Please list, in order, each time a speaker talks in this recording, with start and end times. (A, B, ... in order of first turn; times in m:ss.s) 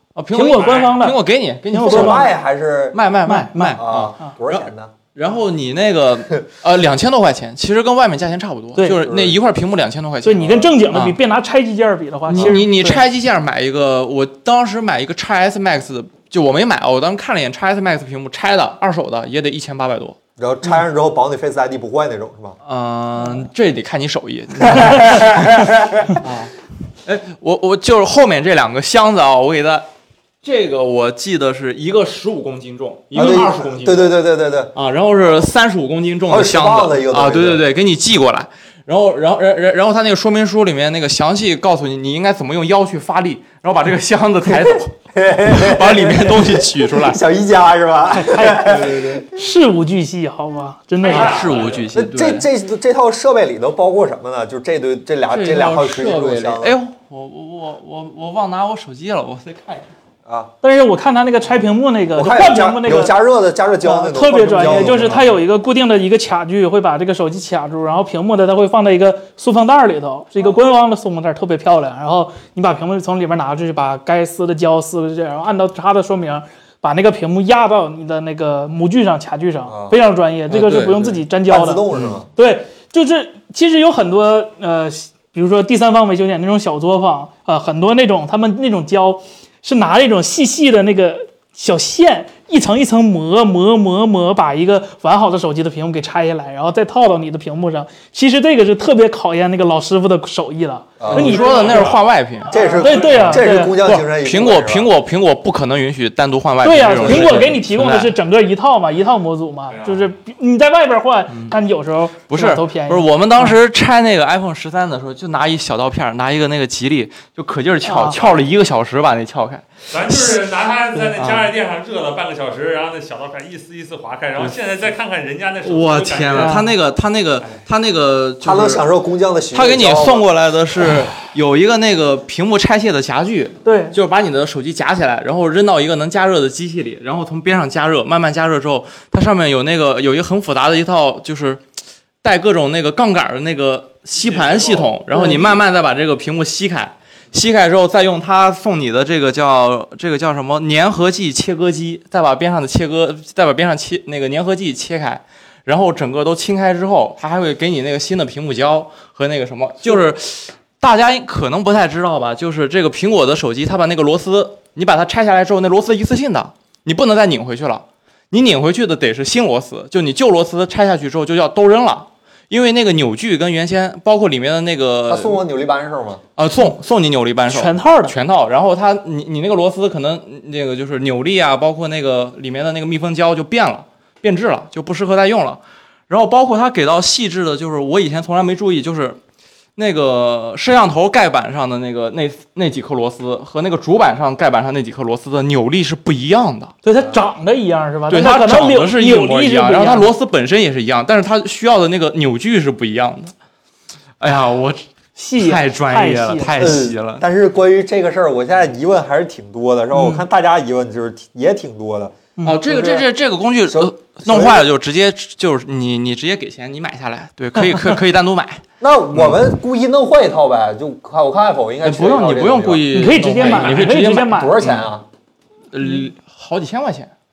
0:00.1-0:02.3 A
0:00.3-0:02.3 B
0:01.8-0:03.0 C
0:02.9-0:11.2 A
0:03.2-0:04.3 B
0:03.8-0:04.9 C
0:08.8-0:09.0 B
0:09.0-0:09.4 C
0:10.2-0:13.0 B
0:12.3-0:20.2 A
0:20.4-0:22.6 C
0:22.6-0:26.5 A
0:24.7-0:25.2 C
0:27.0-0:29.9 A
0:30.4-0:34.2 A
0:33.1-0:34.7 C
0:34.7-0:44.9 A
0:36.3-0:37.6 C
0:44.4-0:49.2 C
0:45.4-0:47.2 A
0:48.1-0:51.4 B
0:48.6-0:49.2 A
0:51.0-0:51.9 D
0:51.0-0:52.4 A
0:51.9-0:56.8 C
0:55.3-0:59.9 A
1:00.2-1:00.5 C
1:00.6-1:03.1 B
1:02.1-1:05.3 C
1:03.8-1:41.9 B
1:04.7-1:05.2 A
1:19.7-1:20.0 C
1:20.5-1:21.3 A
1:21.5-1:22.2 C
1:21.9-1:22.2 A
1:41.0-1:41.5 C
1:41.1-1:48.1 A
1:41.1-1:43.3 D
1:42.5-1:44.9 C
1:42.6-1:43.8 B
1:46.6-1:53.5 B
1:49.7-1:50.1 D
1:51.3-1:51.5 A
1:52.3-2:00.4 A
1:57.8-1:58.3 B
1:59.9-2:06.7 D
2:01.1-2:01.5 A
2:05.6-2:08.8 A
2:06.3-2:06.7 B
2:08.4-2:10.2 C
2:09.5-2:21.6 A
2:13.6-2:14.0 B
2:22.2-2:55.4 A
2:24.2-2:24.9 D
2:25.1-2:25.5 B
2:55.1-2:56.2 C
2:56.4-3:09.2 A
2:57.5-2:58.2 B
3:09.8-3:16.7 A
3:16.8-3:20.1 B
3:18.1-3:23.3 A
3:24.2-3:24.8 A
3:25.2-3:26.7 B
3:25.4-3:27.2 A
3:26.6-3:33.0 C
3:29.9-3:30.2 B
3:32.4-3:38.6 A
3:33.7-3:34.7 C
3:38.8-3:42.9 C
3:39.1-3:39.4 A
3:41.8-3:44.9 A
3:42.9-3:44.6 B
3:43.4-3:43.9 D
3:44.1-3:45.0 C
3:45.7-3:47.1 A